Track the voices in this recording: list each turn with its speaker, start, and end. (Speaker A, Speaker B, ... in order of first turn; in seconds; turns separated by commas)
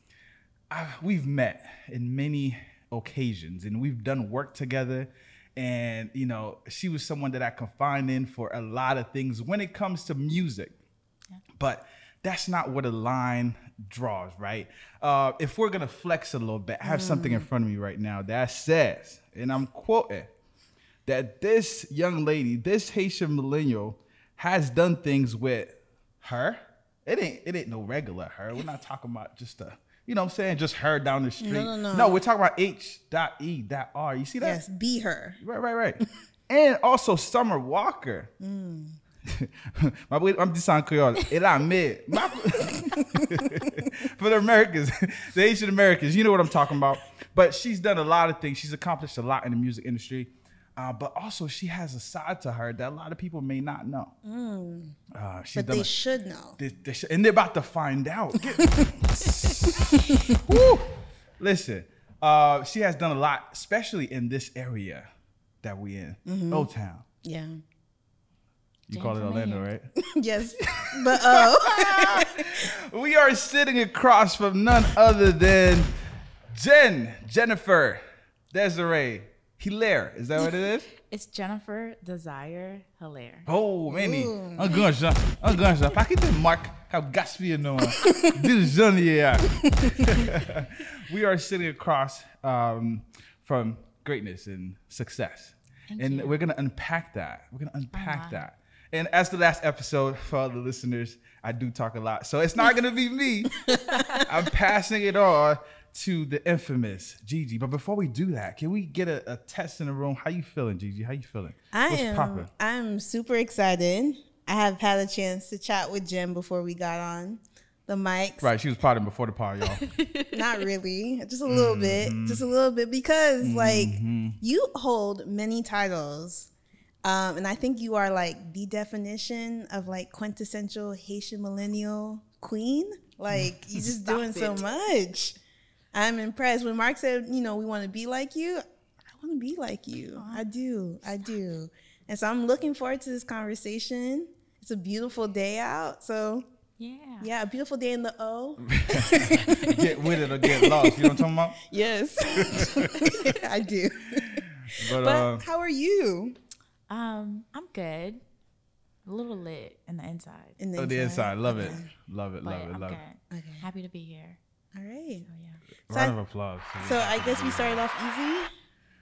Speaker A: 0.7-10.8, Speaker A: 11.6-20.3, Speaker B: 16.8-17.5, Speaker A: 21.1-34.6, Speaker B: 31.4-32.2, Speaker B: 34.4-35.4, Speaker A: 35.4-38.3, Speaker B: 38.4-39.0, Speaker A: 39.3-54.1, Speaker B: 42.6-43.3, Speaker B: 54.2-55.0, Speaker A: 55.1-55.9, Speaker B: 55.5-56.6, Speaker A: 56.6-65.1, Speaker A: 65.6-67.0, Speaker B: 66.3-66.7, Speaker B: 67.2-67.6, Speaker A: 68.9-69.9, Speaker C: 68.9-69.7, Speaker B: 70.0-72.5, Speaker A: 70.6-75.9, Speaker A: 76.5-80.9, Speaker C: 81.1-83.5, Speaker A: 83.5-112.5, Speaker B: 83.9-84.9, Speaker C: 95.9-96.4, Speaker C: 97.9-98.4, Speaker B: 111.7-118.5, Speaker A: 118.4-119.8, Speaker C: 119.8-120.6, Speaker B: 120.3-126.5, Speaker A: 121.5-122.4, Speaker A: 123.4-124.4, Speaker B: 127.0-135.4, Speaker A: 133.3-133.8, Speaker C: 134.1-134.5, Speaker B: 135.9-146.5, Speaker C: 140.2-140.4, Speaker C: 146.8-147.3, Speaker B: 147.2-149.5, Speaker A: 148.7-151.6, Speaker C: 149.4-149.7, Speaker B: 150.5-156.4, Speaker A: 152.3-152.9, Speaker C: 152.9-153.3, Speaker A: 154.2-155.4, Speaker C: 156.9-158.2, Speaker C: 159.1-160.6, Speaker B: 160.6-161.9, Speaker A: 160.8-163.0, Speaker C: 162.4-164.4, Speaker B: 163.3-163.7, Speaker B: 164.7-165.3, Speaker C: 165.3-165.6, Speaker A: 165.9-167.8, Speaker B: 165.9-166.2, Speaker B: 166.8-168.5